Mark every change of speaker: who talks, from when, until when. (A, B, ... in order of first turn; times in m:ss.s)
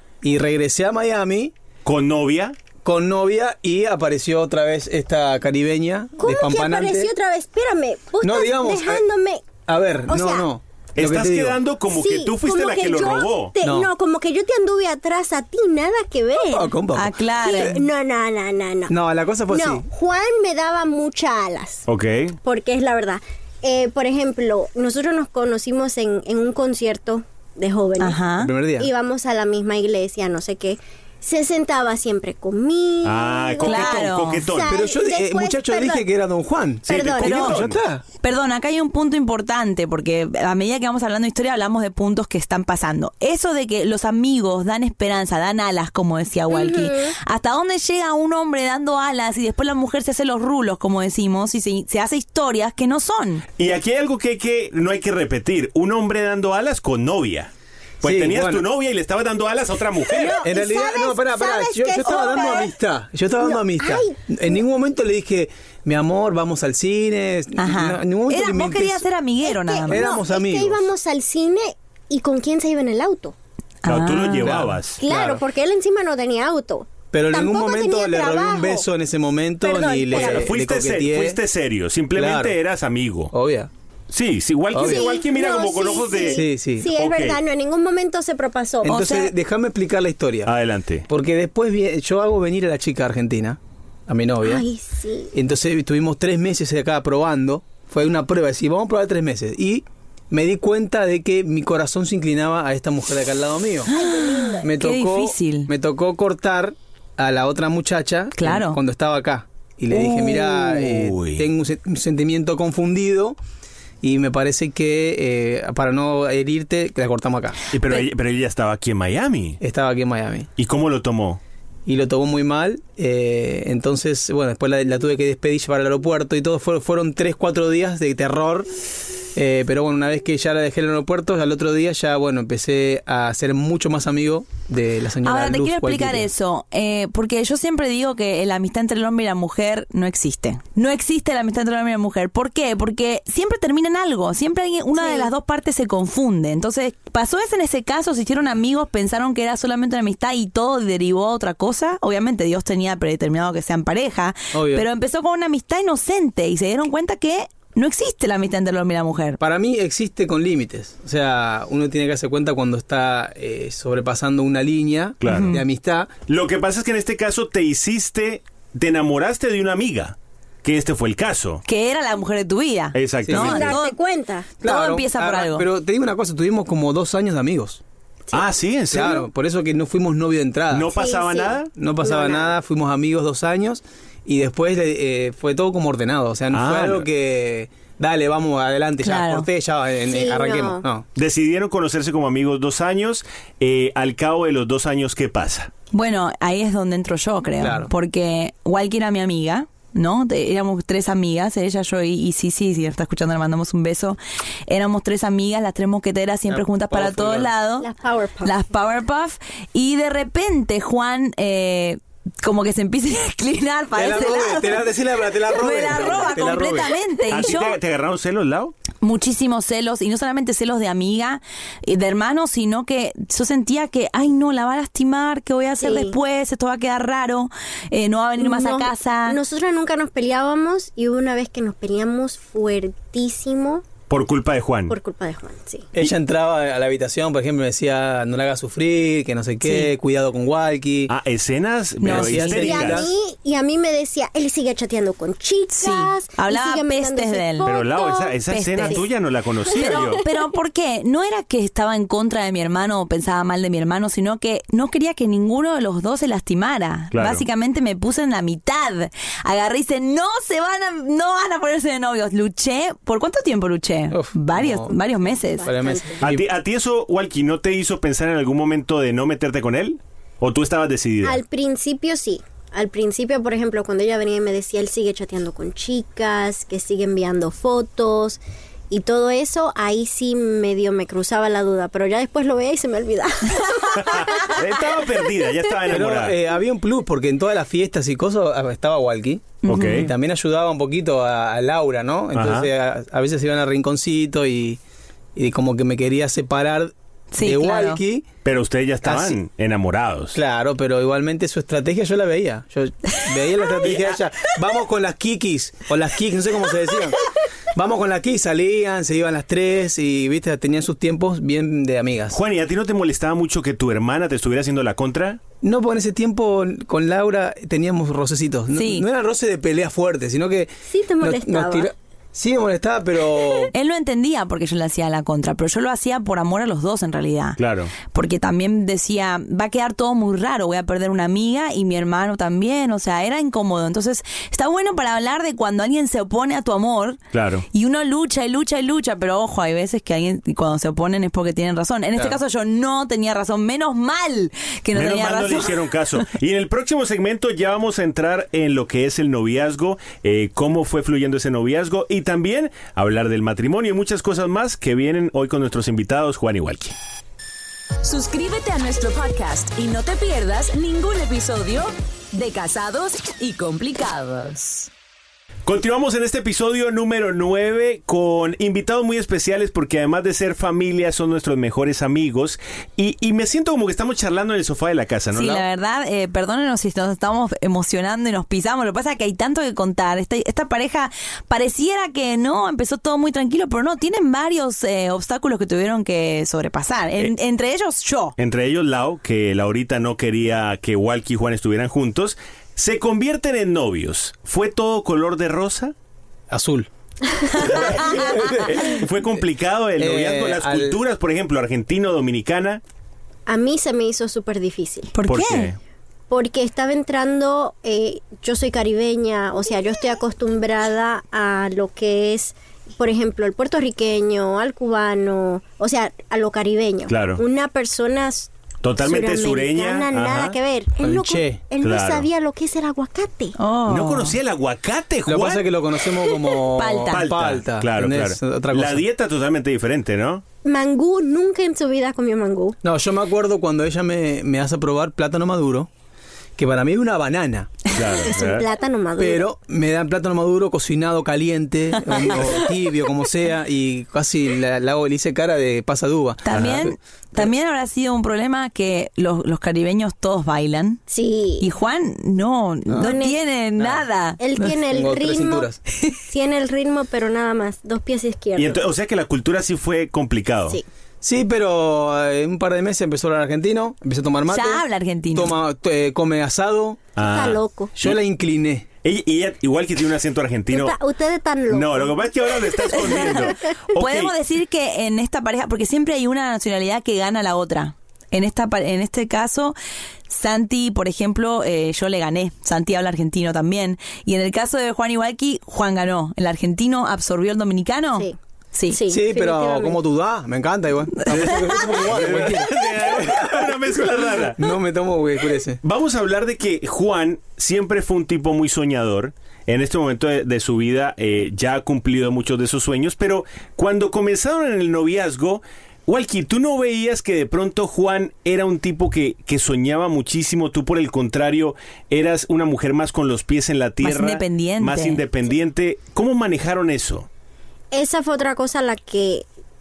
0:00.2-0:01.5 A
0:01.8-0:02.6 B
0:02.8-0:07.1 A
0:06.2-0:10.5 C
0:08.2-0:09.0 A
0:09.6-0:11.6 A
0:11.0-0:13.6 B
0:11.9-0:16.8 C
0:13.6-0:13.9 A
0:16.4-0:17.8 A
0:17.0-0:17.8 D
0:17.4-0:19.0 C
0:18.9-0:19.9 A
0:19.5-0:21.9 C
0:21.9-0:22.4 B
0:22.4-0:28.2 C
0:28.0-0:28.5 D
0:28.4-0:28.9 A
0:28.8-0:36.1 C
0:33.0-0:34.8 B
0:33.6-0:34.4 D
0:34.7-0:38.0 A
0:36.9-0:37.6 C
0:36.9-0:37.8 B
0:38.2-0:53.4 D
0:46.5-0:47.2 C
0:53.6-0:57.5 B
0:58.0-0:58.7 A
0:58.0-1:00.4 B
1:00.1-1:02.7 C
1:00.4-1:09.0 A
1:03.4-1:04.6 C
1:07.6-1:10.0 D
1:09.4-1:13.4 C
1:09.9-1:10.9 A
1:13.8-1:14.6 D
1:13.9-1:15.0 B
1:14.4-1:15.4 A
1:15.0-1:18.9 C
1:17.1-1:21.4 A
1:19.6-1:20.5 C
1:20.1-1:23.3 B
1:22.2-1:22.6 A
1:23.3-1:23.7 A
1:24.1-1:27.4 B
1:24.7-1:25.1 A
1:24.7-1:29.2 C
1:26.2-1:26.9 A
1:28.8-1:30.5 A
1:28.9-1:29.3 D
1:30.4-1:31.1 B
1:31.1-1:34.6 A
1:34.4-1:35.4 C
1:35.3-1:43.9 A
1:43.9-1:45.7 D
1:43.9-1:44.7 C
1:44.6-1:53.4 A
1:48.4-1:48.8 D
1:49.9-1:50.4 D
1:50.6-1:51.5 B
1:54.0-1:57.6 A
1:57.7-1:59.6 B
1:59.6-2:00.5 A
2:00.6-2:01.4 B
2:01.9-2:08.7 A
2:09.4-2:16.3 A
2:15.2-2:39.4 D
2:25.0-2:25.3 C
2:34.5-2:34.9 A
2:39.4-2:46.1 A
2:45.2-2:45.6 B
2:45.2-2:45.6 D
2:46.3-2:51.6 B
2:51.7-2:54.0 D
2:53.0-2:53.7 B
2:53.3-2:53.8 A
2:53.3-2:54.5 C
2:54.6-2:57.8 A
2:54.6-2:55.6 D
2:58.3-2:59.3 B
2:58.9-3:00.9 A
3:00.7-3:01.7 B
3:00.9-3:02.6 C
3:01.7-3:11.1 A
3:06.5-3:07.1 B
3:09.0-3:09.5 D
3:10.0-3:10.8 C
3:11.2-3:15.7 B
3:15.9-3:27.9 D
3:17.6-3:17.9 A
3:26.5-3:27.5 A
3:27.8-3:28.6 C
3:28.4-3:34.9 D
3:34.0-3:37.0 A
3:35.5-3:37.8 D
3:37.3-3:38.8 B
3:39.0-3:49.4 D
3:45.8-3:46.2 C
3:48.4-3:53.8 C
3:54.1-3:55.0 B
3:54.9-3:55.9 C
3:56.0-4:01.1 A
3:59.6-3:59.9 D
4:01.1-4:03.1 B
4:02.0-4:02.8 D
4:02.0-4:03.1 A
4:02.5-4:09.1 C
4:05.7-4:07.8 D
4:07.6-4:10.2 B
4:08.5-4:09.0 D
4:09.7-4:10.2 C
4:09.7-4:25.7 D
4:17.1-4:17.4 B
4:24.1-4:25.0 A
4:25.6-4:26.2 C
4:25.6-4:26.5 A
4:26.2-4:31.4 B
4:31.2-4:44.6 C
4:44.0-4:46.4 B
4:45.9-4:54.8 A
4:49.6-4:50.1 D
4:49.6-4:50.1 B
4:52.3-4:52.7 B
4:55.4-4:58.3 A
4:57.3-4:58.0 D
4:58.4-5:00.4 B
4:59.0-4:59.4 A
5:00.3-5:07.2 A
5:03.8-5:04.2 B
5:07.8-5:12.4 A
5:12.3-5:15.4 B
5:15.6-5:23.7 A
5:18.7-5:19.1 D
5:20.9-5:21.9 C
5:23.7-5:27.6 D
5:27.6-5:27.9 B
5:28.1-5:37.2 D
5:37.3-5:37.6 B
5:37.7-5:45.8 D
5:44.9-5:57.0 B
5:58.0-6:04.9 E
6:05.7-6:15.6 B
6:15.3-6:28.4 D
6:28.4-6:35.9 B
6:36.5-6:36.9 A
6:37.6-6:39.0 A
6:38.6-6:42.8 B
6:40.0-6:41.0 A
6:43.5-6:45.1 C
6:45.1-6:45.7 D
6:45.3-6:45.8 B
6:46.3-7:03.6 C
6:57.1-6:57.4 B
6:58.8-7:00.6 B
7:01.0-7:01.6 A
7:01.8-7:02.3 B
7:03.6-7:04.4 D
7:03.9-7:05.7 B
7:05.3-7:09.0 A
7:06.8-7:07.2 D
7:07.1-7:10.4 B
7:10.6-7:12.8 C
7:12.8-7:15.9 A
7:16.6-7:17.7 A
7:17.9-7:18.7 B
7:18.2-7:19.5 C
7:19.2-7:27.5 A
7:26.4-7:31.0 D
7:26.5-7:26.8 B
7:31.1-7:31.7 C
7:31.6-7:34.4 D
7:32.9-7:33.4 C
7:33.8-7:34.0 A
7:34.4-7:35.7 C
7:34.9-7:35.8 A
7:36.3-7:38.8 C
7:38.6-7:40.8 B
7:41.2-7:47.0 A
7:44.5-7:45.5 D
7:47.2-7:48.2 B
7:47.2-7:47.9 C
7:48.0-7:48.9 A
7:49.0-7:51.0 B
7:50.7-7:53.4 C
7:51.7-7:54.3 B
7:52.9-7:59.8 D
8:00.3-8:09.0 D
8:08.9-8:10.0 C
8:09.1-8:15.8 A
8:11.3-8:14.6 B
8:15.8-8:37.3 B
8:34.0-8:35.2 D
8:37.9-8:39.5 C